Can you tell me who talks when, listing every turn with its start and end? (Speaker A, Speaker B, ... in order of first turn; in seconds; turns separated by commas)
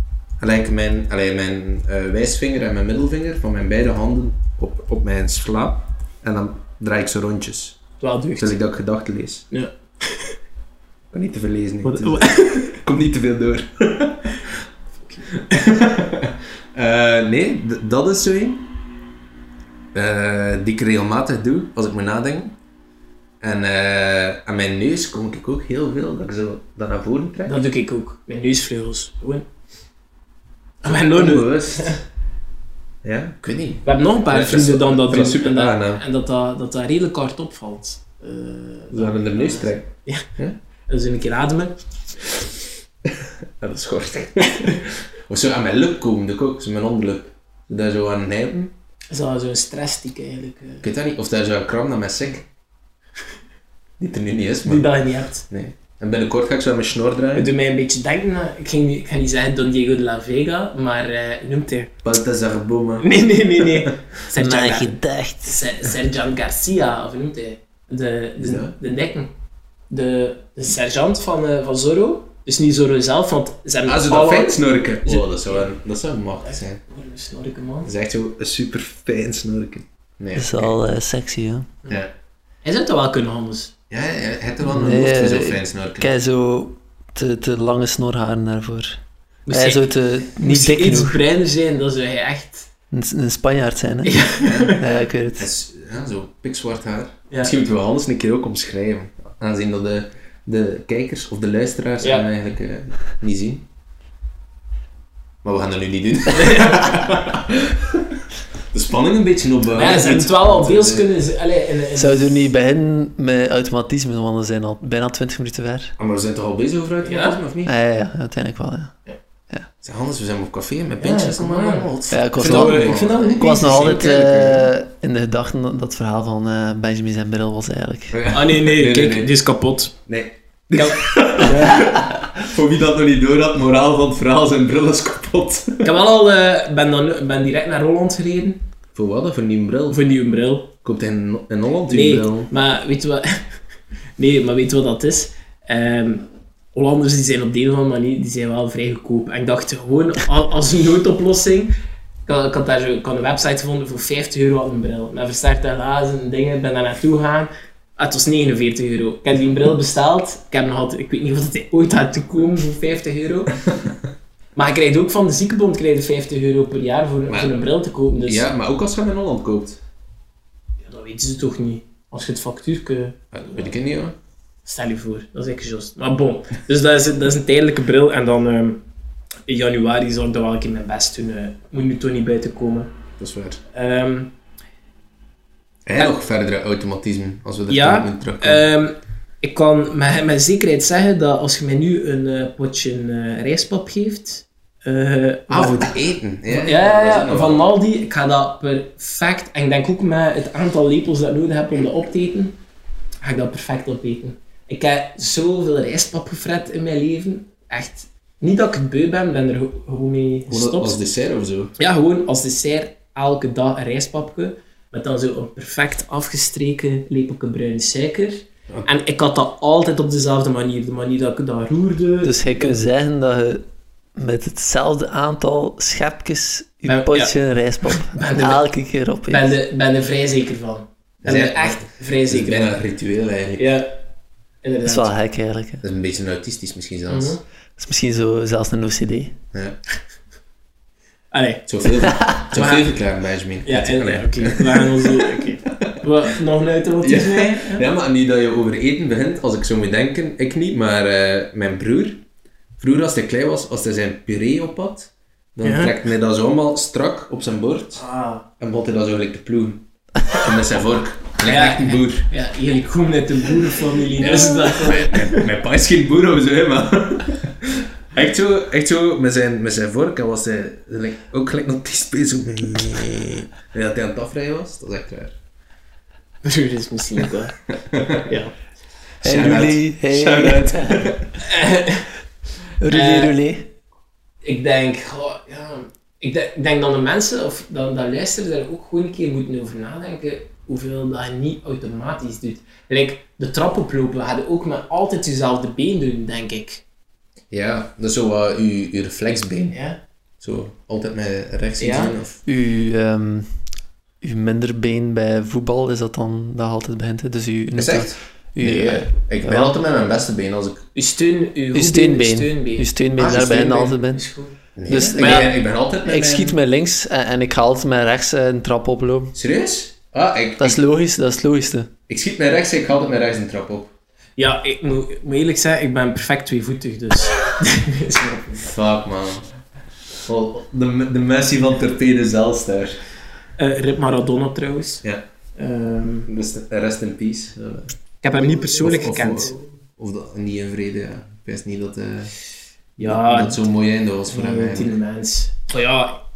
Speaker A: 0.4-7.8, Speaker B: 8.0-8.6, Speaker A: 8.4-9.5, Speaker B: 9.5-10.3, Speaker A: 11.1-14.5, Speaker B: 11.8-12.8, Speaker B: 15.1-15.6, Speaker A: 15.4-18.7, Speaker A: 19.9-22.6, Speaker A: 23.4-27.6, Speaker B: 27.4-29.5, Speaker A: 30.8-32.0, Speaker B: 30.8-32.0, Speaker A: 33.0-36.0, Speaker B: 33.9-40.3, Speaker A: 38.9-40.6, Speaker B: 40.9-41.8, Speaker A: 43.1-48.7, Speaker B: 49.1-50.9, Speaker A: 50.8-52.5, Speaker A: 54.0-54.9, Speaker B: 54.6-55.5, Speaker A: 55.5-57.5, Speaker B: 57.4-62.0, Speaker A: 62.0-63.8, Speaker B: 63.0-69.3, Speaker C: 64.4-65.8, Speaker A: 68.4-68.7, Speaker B: 69.9-75.7, Speaker A: 73.9-76.8, Speaker B: 76.4-77.9, Speaker A: 77.8-80.8, Speaker C: 80.3-81.7, Speaker A: 81.9-82.1, Speaker B: 82.6-83.7, Speaker A: 83.9-86.2, Speaker C: 84.6-89.0, Speaker B: 89.5-92.7, Speaker C: 89.5-91.2, Speaker C: 92.9-95.5, Speaker B: 94.0-94.8, Speaker A: 94.4-94.8, Speaker A: 95.4-103.7, Speaker B: 102.0-102.3, Speaker A: 105.4-108.1, Speaker B: 106.3-107.1, Speaker A: 108.7-111.1, Speaker B: 109.7-112.5, Speaker C: 112.0-116.0, Speaker A: 116.0-117.7, Speaker B: 117.0-117.4, Speaker C: 117.7-119.0, Speaker A: 119.8-124.7, Speaker B: 121.0-124.0, Speaker C: 122.1-128.2, Speaker A: 128.1-129.3, Speaker B: 128.3-129.9, Speaker A: 130.1-135.9, Speaker B: 130.8-131.8, Speaker C: 131.7-132.2, Speaker B: 135.8-138.6, Speaker A: 138.9-140.0, Speaker B: 139.9-140.7, Speaker A: 140.8-142.5, Speaker B: 141.9-143.4, Speaker B: 144.2-151.7, Speaker B: 152.3-163.6, Speaker A: 163.7-163.9, Speaker B: 164.6-168.5, Speaker A: 167.3-167.6, Speaker A: 168.2-169.8, Speaker B: 170.8-173.7, Speaker A: 173.3-174.2, Speaker B: 174.7-178.8, Speaker B: 179.5-182.9, Speaker A: 183.2-183.6, Speaker B: 183.7-184.3, Speaker A: 185.9-188.6, Speaker B: 187.7-202.6, Speaker A: 195.5-197.6, Speaker B: 203.2-211.0, Speaker A: 210.5-211.8, Speaker B: 211.8-222.8, Speaker C: 222.2-223.6, Speaker C: 224.2-229.5, Speaker B: 226.9-228.7, Speaker B: 229.3-232.8, Speaker A: 231.2-233.7, Speaker B: 233.6-233.9, Speaker B: 234.6-235.1, Speaker C: 234.8-235.8, Speaker A: 235.8-237.4, Speaker B: 237.1-237.4, Speaker C: 237.8-239.4, Speaker A: 239.5-239.8, Speaker B: 241.3-241.9, Speaker A: 241.7-246.0, Speaker C: 242.2-242.4, Speaker B: 242.5-243.0, Speaker B: 243.7-247.8, Speaker A: 247.0-252.2, Speaker A: 252.8-258.1, Speaker B: 255.6-255.9, Speaker B: 258.0-258.4, Speaker A: 258.6-262.3, Speaker B: 261.4-265.3, Speaker C: 264.4-264.9, Speaker A: 264.4-275.4, Speaker B: 276.4-277.6, Speaker A: 277.9-278.2, Speaker B: 278.2-278.6, Speaker A: 279.2-281.3, Speaker C: 279.2-281.2, Speaker B: 281.4-282.1, Speaker C: 282.8-283.7, Speaker B: 282.9-283.4, Speaker B: 284.4-296.8, Speaker A: 297.5-299.8, Speaker B: 299.7-300.0, Speaker A: 300.4-302.4, Speaker B: 301.8-302.1, Speaker C: 302.5-303.7, Speaker C: 304.2-309.8, Speaker A: 307.8-310.8, Speaker B: 310.9-314.6, Speaker C: 311.7-314.3, Speaker A: 313.2-313.7, Speaker A: 314.8-316.6, Speaker C: 314.9-319.4, Speaker B: 315.2-315.5, Speaker A: 319.3-320.8, Speaker C: 320.6-321.9, Speaker A: 322.1-323.9, Speaker B: 324.4-328.7, Speaker A: 328.6-329.5, Speaker A: 330.2-333.0, Speaker B: 333.6-335.0, Speaker B: 335.6-336.3, Speaker A: 336.3-337.9, Speaker B: 338.2-339.6, Speaker A: 338.8-342.3, Speaker B: 343.0-343.6, Speaker A: 343.0-345.0, Speaker B: 344.3-346.2